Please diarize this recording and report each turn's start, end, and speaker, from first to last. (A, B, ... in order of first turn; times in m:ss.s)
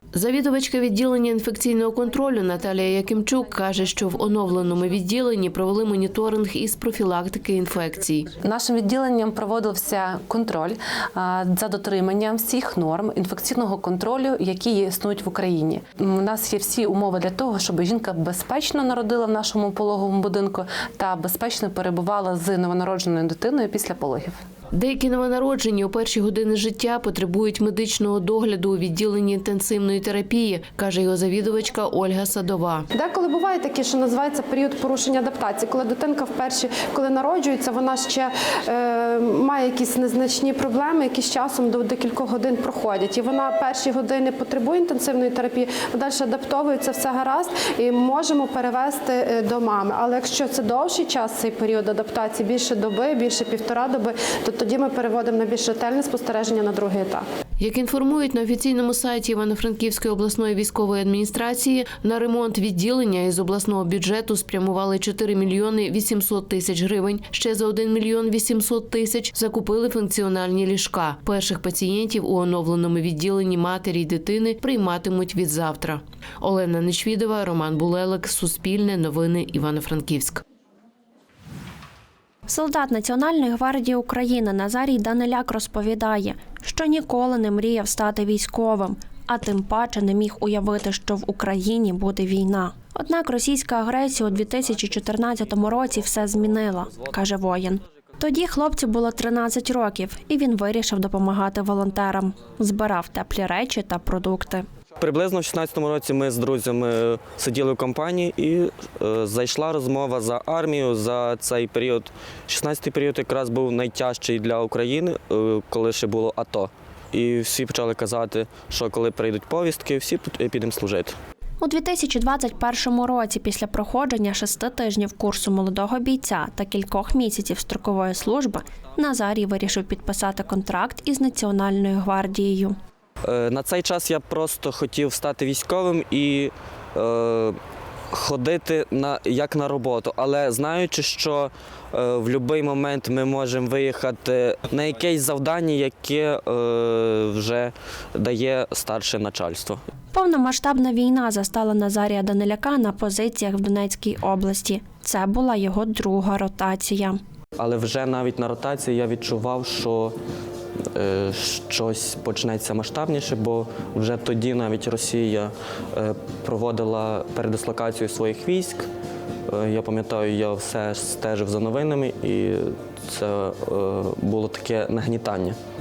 0:00.1-0:08.3 A
0:08.4-0:24.4 B
0:24.7-0:32.8 A
0:32.9-0:57.2 C
0:57.6-1:20.4 A
1:22.5-1:44.6 D
1:45.0-2:01.2 E
2:01.6-2:12.8 D
2:13.2-2:17.6 E
2:18.1-2:29.8 E
2:30.1-2:37.2 D
2:37.6-2:40.2 E
2:41.0-2:48.9 E
2:49.5-2:55.6 E